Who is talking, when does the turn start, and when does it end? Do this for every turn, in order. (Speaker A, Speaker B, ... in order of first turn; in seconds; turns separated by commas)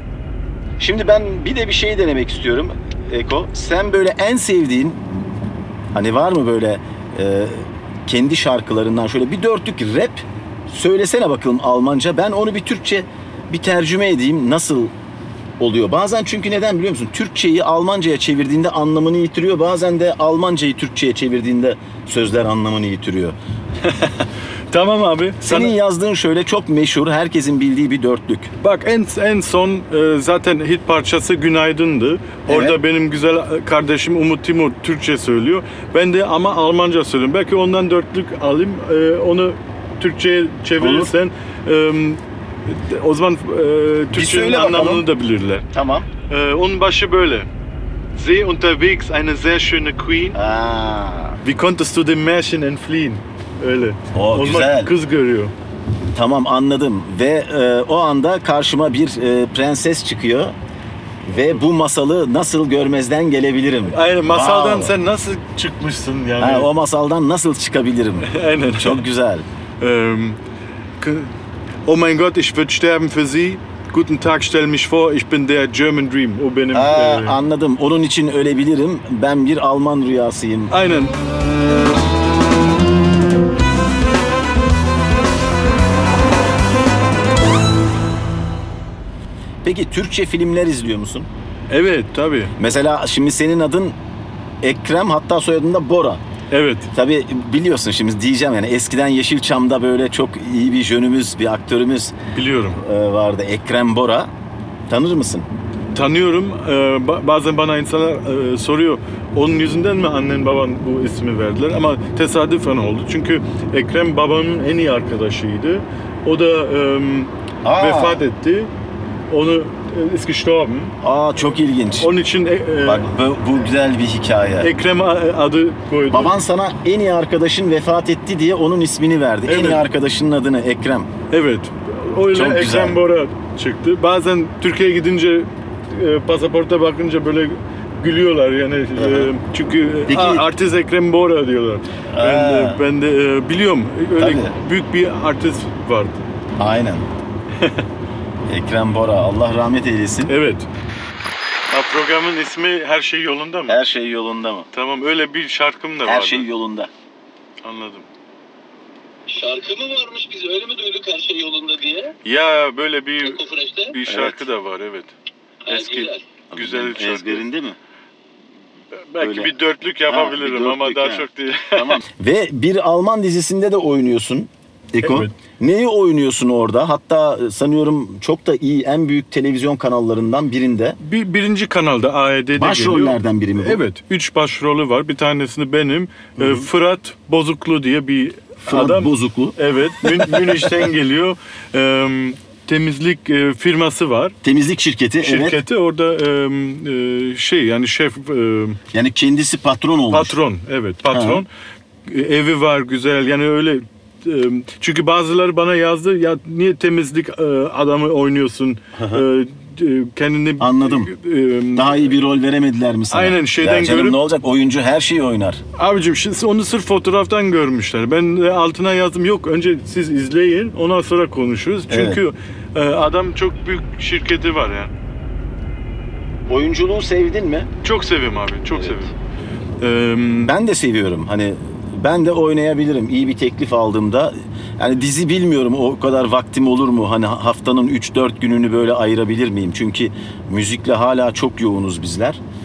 Speaker A: 0.8-5.3, Speaker A: 5.9-14.9, Speaker A: 15.6-23.4, Speaker B: 23.8-25.7, Speaker A: 25.4-28.5, Speaker B: 28.6-45.7, Speaker A: 32.5-32.8, Speaker A: 40.8-41.1, Speaker A: 44.1-45.1, Speaker A: 45.7-46.1, Speaker B: 46.3-47.5, Speaker B: 48.2-50.4, Speaker A: 50.4-51.4, Speaker B: 51.4-55.5, Speaker A: 54.1-54.9, Speaker A: 56.1-60.6, Speaker A: 61.3-65.0, Speaker B: 63.9-66.7, Speaker A: 66.4-69.5, Speaker B: 68.2-69.0, Speaker B: 69.8-70.4, Speaker B: 71.0-71.3, Speaker B: 71.9-77.4, Speaker A: 76.7-80.7, Speaker B: 80.7-81.1, Speaker A: 89.6-91.3, Speaker B: 91.7-92.6, Speaker A: 92.6-94.0, Speaker A: 94.6-96.2, Speaker B: 96.5-96.9, Speaker A: 96.9-102.2, Speaker B: 102.3-102.8, Speaker A: 102.8-104.3, Speaker A: 104.9-105.5, Speaker B: 105.9-118.7, Speaker A: 117.6-118.2, Speaker B: 119.3-121.0, Speaker A: 121.0-122.1, Speaker B: 122.0-123.1, Speaker A: 122.8-124.7, Speaker B: 124.6-126.4, Speaker A: 126.1-131.1, Speaker B: 129.5-129.8, Speaker B: 131.3-146.3, Speaker A: 132.3-133.0, Speaker A: 139.0-139.3, Speaker A: 140.1-140.5, Speaker A: 142.1-142.8, Speaker A: 144.2-144.6, Speaker A: 146.6-147.1, Speaker B: 147.6-147.8, Speaker A: 148.5-150.3, Speaker B: 150.3-150.7, Speaker B: 151.7-153.8, Speaker A: 153.7-154.7, Speaker B: 154.7-156.5, Speaker A: 156.0-156.9, Speaker B: 157.6-158.1, Speaker C: 159.3-162.2, Speaker B: 162.2-165.1, Speaker C: 163.2-163.9, Speaker A: 164.1-164.5, Speaker C: 165.7-166.2, Speaker B: 165.7-167.4, Speaker A: 166.5-167.8, Speaker B: 169.1-172.0, Speaker A: 169.2-169.5, Speaker A: 170.1-181.0, Speaker B: 175.0-175.3, Speaker B: 181.0-194.4, Speaker A: 182.6-183.8, Speaker A: 186.4-186.7, Speaker A: 188.7-190.9, Speaker A: 194.4-195.6, Speaker B: 195.2-198.8, Speaker A: 198.9-200.3, Speaker B: 200.1-201.5, Speaker A: 201.1-201.4, Speaker B: 202.1-212.2, Speaker A: 209.0-209.2, Speaker A: 210.6-211.1, Speaker A: 211.8-215.6, Speaker B: 213.1-214.2, Speaker B: 215.8-224.9, Speaker A: 221.9-222.2, Speaker A: 226.5-227.7, Speaker B: 227.8-229.1, Speaker A: 228.7-229.0, Speaker B: 229.8-230.6, Speaker A: 230.5-242.4